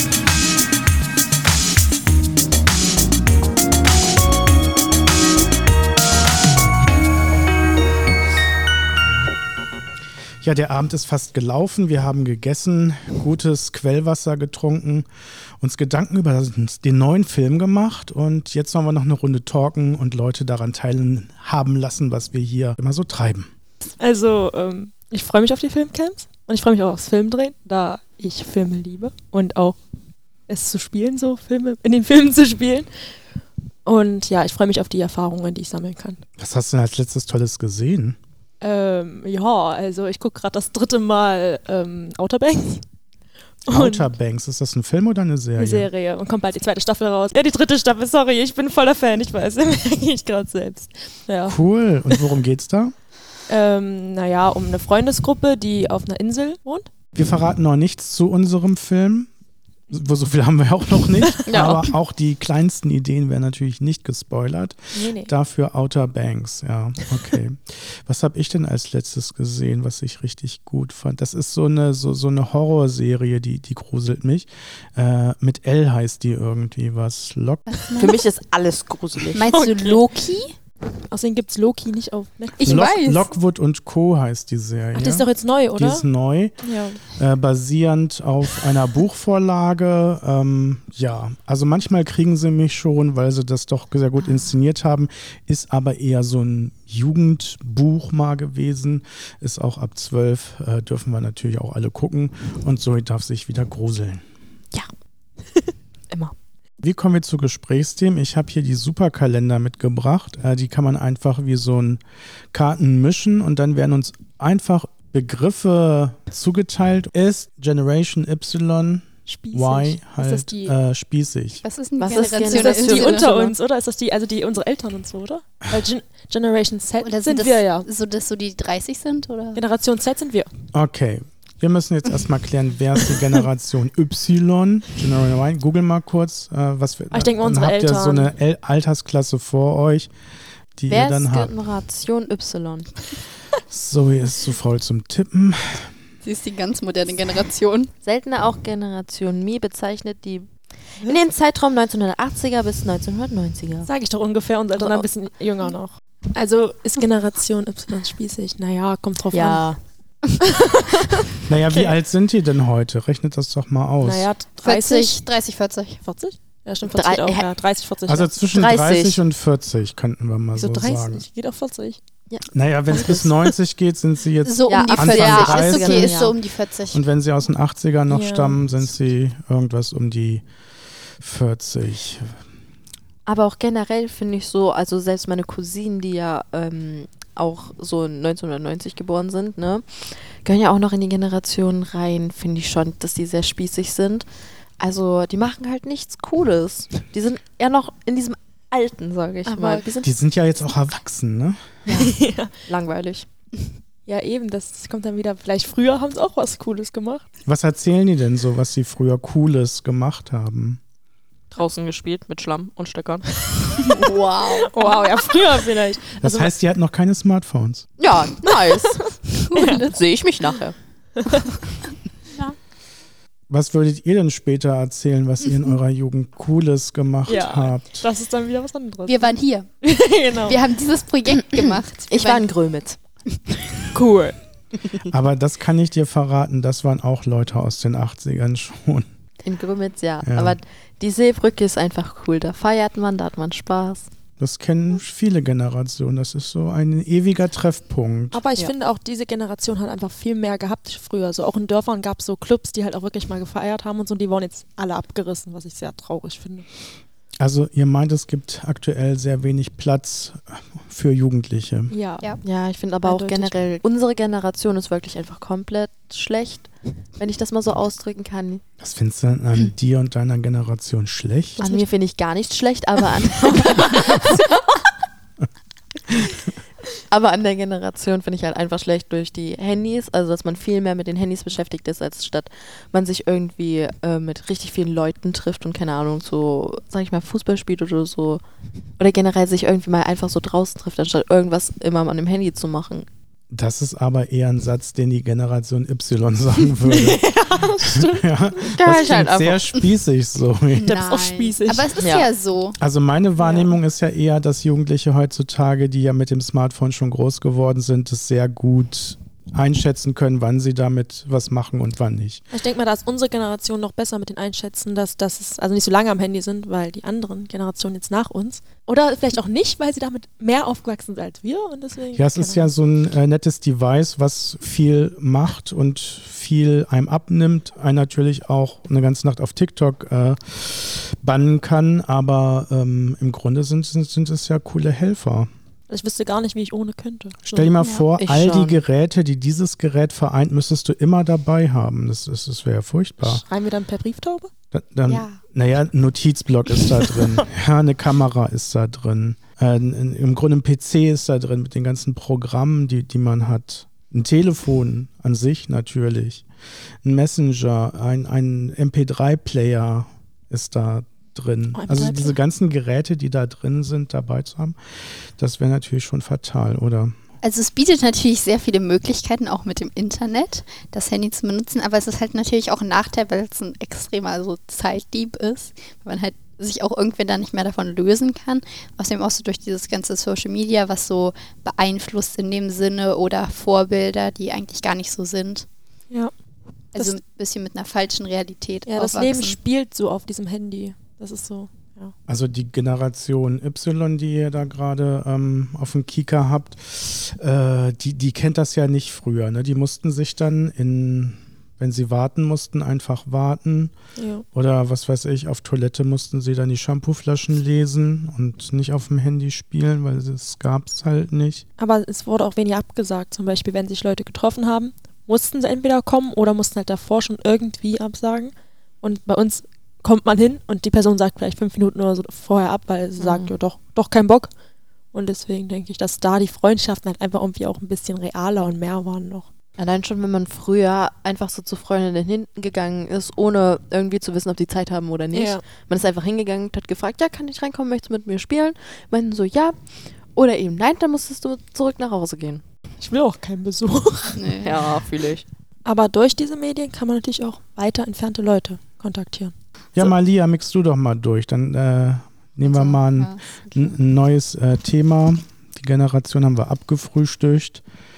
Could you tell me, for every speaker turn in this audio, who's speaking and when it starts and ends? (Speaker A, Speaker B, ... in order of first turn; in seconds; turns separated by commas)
Speaker A: 10.4-15.1, Speaker A: 15.6-23.5, Speaker B: 24.0-29.8, Speaker B: 30.5-32.9, Speaker B: 33.9-36.2, Speaker A: 36.4-38.2, Speaker B: 38.6-42.8, Speaker B: 43.7-44.1, Speaker A: 43.7-45.9, Speaker B: 45.6-51.6, Speaker A: 51.5-52.9, Speaker B: 53.5-56.9, Speaker A: 57.1-59.3, Speaker A: 59.9-77.7, Speaker C: 61.4-61.9, Speaker B: 64.9-65.3, Speaker D: 77.7-78.2, Speaker C: 78.0-79.5, Speaker D: 79.3-80.5, Speaker B: 79.5-80.0, Speaker B: 81.1-82.9, Speaker D: 82.6-83.3, Speaker A: 82.6-86.5, Speaker B: 84.9-86.0, Speaker B: 86.6-87.0, Speaker A: 87.1-104.2, Speaker A: 106.8-112.0, Speaker A: 112.5-121.6, Speaker B: 119.3-120.7, Speaker D: 121.6-123.3, Speaker C: 122.0-123.5, Speaker B: 122.2-127.9, Speaker D: 127.0-129.6, Speaker B: 129.5-130.5, Speaker A: 130.7-140.1, Speaker B: 137.1-138.3, Speaker A: 140.8-141.5, Speaker C: 140.9-142.9, Speaker A: 143.7-145.9, Speaker D: 146.2-147.9, Speaker C: 148.0-150.5, Speaker C: 151.0-153.9, Speaker B: 153.8-159.7, Speaker C: 154.8-155.1, Speaker C: 159.3-159.8, Speaker B: 160.4-161.9, Speaker A: 161.5-164.3, Speaker B: 164.0-165.2, Speaker D: 164.6-166.0, Speaker B: 166.0-168.3, Speaker C: 166.8-167.5, Speaker A: 168.1-171.2, Speaker C: 168.5-169.2, Speaker B: 170.5-172.0, Speaker C: 172.3-173.3, Speaker A: 172.5-176.1, Speaker D: 174.4-177.0, Speaker C: 174.7-176.4, Speaker A: 176.9-180.4, Speaker B: 178.1-178.6, Speaker A: 181.2-182.3, Speaker C: 183.2-194.2, Speaker C: 194.8-200.1, Speaker B: 199.4-200.0, Speaker A: 200.0-201.6, Speaker B: 201.9-202.5, Speaker C: 201.9-203.3, Speaker B: 204.1-207.2, Speaker A: 207.4-210.8, Speaker C: 211.5-213.2, Speaker B: 213.5-216.5, Speaker C: 213.8-215.0, Speaker A: 216.2-217.9, Speaker C: 218.0-220.8, Speaker B: 218.6-219.9, Speaker D: 219.5-219.8, Speaker B: 221.2-221.6, Speaker A: 223.5-228.1, Speaker B: 227.3-230.6, Speaker D: 229.1-229.7, Speaker D: 230.4-232.4, Speaker C: 231.6-233.0, Speaker B: 233.9-234.4, Speaker A: 235.0-239.1, Speaker C: 239.4-244.1, Speaker A: 240.2-240.6, Speaker A: 244.4-248.4, Speaker B: 248.3-256.6, Speaker A: 257.4-261.9, Speaker B: 261.9-262.4, Speaker C: 262.4-268.6, Speaker B: 263.0-263.6, Speaker A: 268.8-271.6, Speaker B: 271.6-271.9, Speaker C: 271.6-274.7, Speaker B: 273.9-274.3, Speaker C: 277.1-288.4, Speaker C: 289.0-293.1, Speaker A: 293.5-301.0, Speaker B: 297.1-298.2, Speaker C: 297.2-297.6, Speaker C: 298.6-299.7, Speaker D: 300.8-302.8, Speaker B: 300.8-302.0, Speaker C: 302.0-302.3, Speaker A: 302.8-312.4, Speaker B: 312.5-322.7, Speaker A: 322.1-335.5, Speaker B: 335.9-337.7, Speaker A: 337.4-343.4, Speaker D: 337.8-338.1, Speaker C: 338.2-338.8, Speaker B: 343.2-344.5, Speaker A: 344.7-356.4, Speaker B: 346.8-347.4, Speaker A: 357.0-364.8, Speaker B: 361.7-362.4, Speaker A: 365.4-367.1, Speaker D: 367.4-385.6, Speaker D: 386.9-389.6, Speaker B: 388.9-392.1, Speaker A: 392.3-403.9, Speaker B: 404.1-404.4, Speaker A: 404.5-411.6, Speaker B: 411.8-424.5, Speaker C: 423.2-423.5, Speaker B: 425.1-429.5, Speaker C: 429.8-439.8, Speaker B: 435.3-435.6, Speaker C: 440.3-442.6, Speaker B: 443.0-444.6, Speaker D: 444.3-444.7, Speaker C: 444.6-445.4, Speaker B: 445.8-450.1, Speaker A: 449.9-457.8, Speaker D: 452.6-453.9